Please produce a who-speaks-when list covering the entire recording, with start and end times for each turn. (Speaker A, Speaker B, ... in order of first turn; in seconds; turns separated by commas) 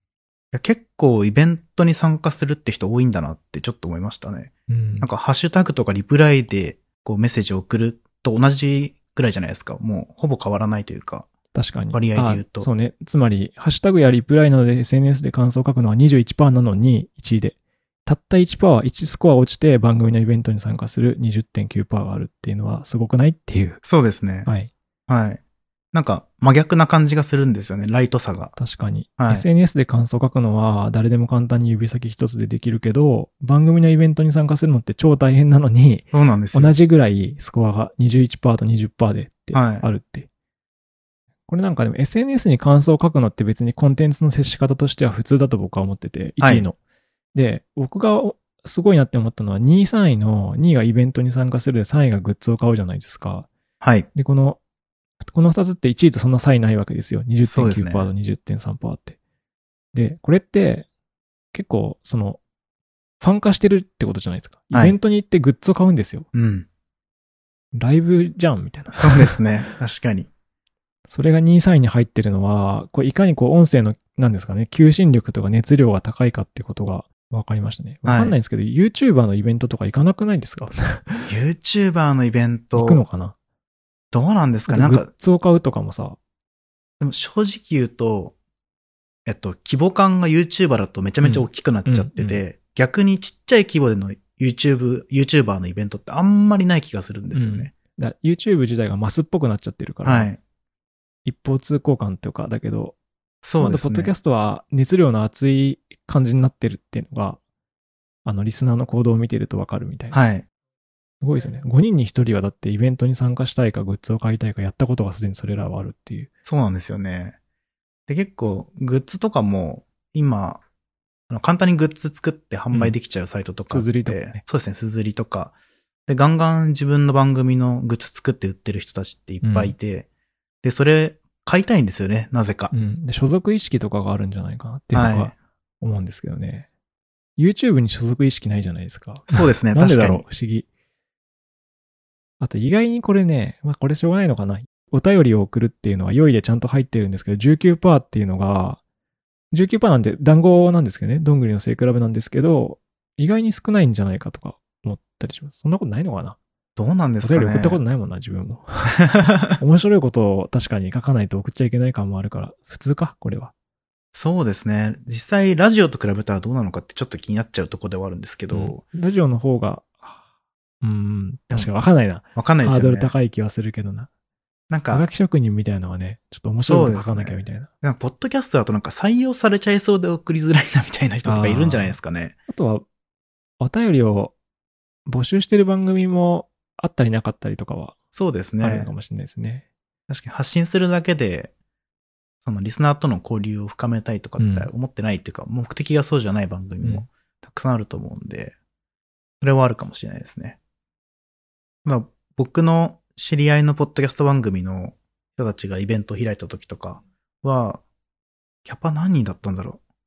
Speaker A: 0.5-11.3, Speaker B: 4.7-5.1, Speaker B: 11.5-23.8, Speaker A: 11.9-12.7, Speaker A: 23.8-24.5, Speaker B: 24.4-24.7, Speaker A: 25.1-25.4, Speaker A: 25.9-28.5, Speaker B: 28.6-40.3, Speaker A: 29.2-29.4, Speaker A: 36.1-36.7, Speaker A: 39.5-39.9, Speaker B: 41.5-46.8, Speaker A: 46.4-46.7, Speaker B: 47.3-53.5, Speaker A: 53.8-54.1, Speaker B: 54.1-54.6, Speaker B: 55.3-59.2, Speaker A: 57.5-58.1, Speaker B: 59.9-60.9, Speaker B: 61.5-62.4, Speaker B: 63.2-66.3, Speaker A: 64.7-65.0, Speaker A: 66.3-66.7, Speaker B: 67.7-69.4, Speaker A: 68.9-70.3, Speaker B: 71.1-81.3, Speaker A: 78.0-78.4, Speaker A: 81.3-83.0, Speaker B: 82.8-83.3, Speaker A: 84.1-85.1, Speaker B: 84.7-86.2, Speaker A: 87.0-88.3, Speaker A: 89.2-97.7, Speaker B: 91.2-92.4, Speaker B: 97.3-100.3, Speaker A: 100.0-100.4, Speaker B: 101.2-103.0, Speaker A: 103.4-104.1, Speaker B: 103.6-107.4, Speaker B: 108.2-110.2, Speaker A: 110.1-110.4, Speaker B: 111.2-116.3, Speaker A: 116.4-117.4, Speaker A: 118.1-120.6, Speaker A: 121.3-125.5, Speaker B: 123.7-124.4, Speaker A: 126.1-130.1, Speaker B: 129.4-129.7, Speaker A: 130.6-132.7, Speaker B: 132.7-136.7, Speaker A: 134.9-135.3, Speaker B: 137.4-140.7, Speaker A: 139.3-140.2, Speaker B: 142.4-148.8, Speaker B: 149.5-156.4, Speaker A: 156.8-157.8, Speaker B: 157.2-159.0, Speaker A: 159.1-159.6, Speaker B: 159.6-163.5, Speaker A: 164.1-168.8, Speaker B: 168.5-170.2, Speaker B: 170.8-174.1, Speaker A: 172.3-173.1, Speaker A: 174.7-175.0, Speaker B: 174.9-177.7, Speaker A: 176.6-182.3, Speaker B: 181.2-182.8, Speaker B: 183.6-184.3, Speaker B: 185.1-187.9, Speaker A: 188.1-188.9, Speaker B: 188.6-189.7, Speaker A: 190.1-191.5, Speaker A: 192.4-198.5, Speaker B: 194.4-194.7, Speaker B: 196.8-197.1, Speaker A: 199.4-200.6, Speaker A: 201.8-207.8, Speaker A: 208.6-209.8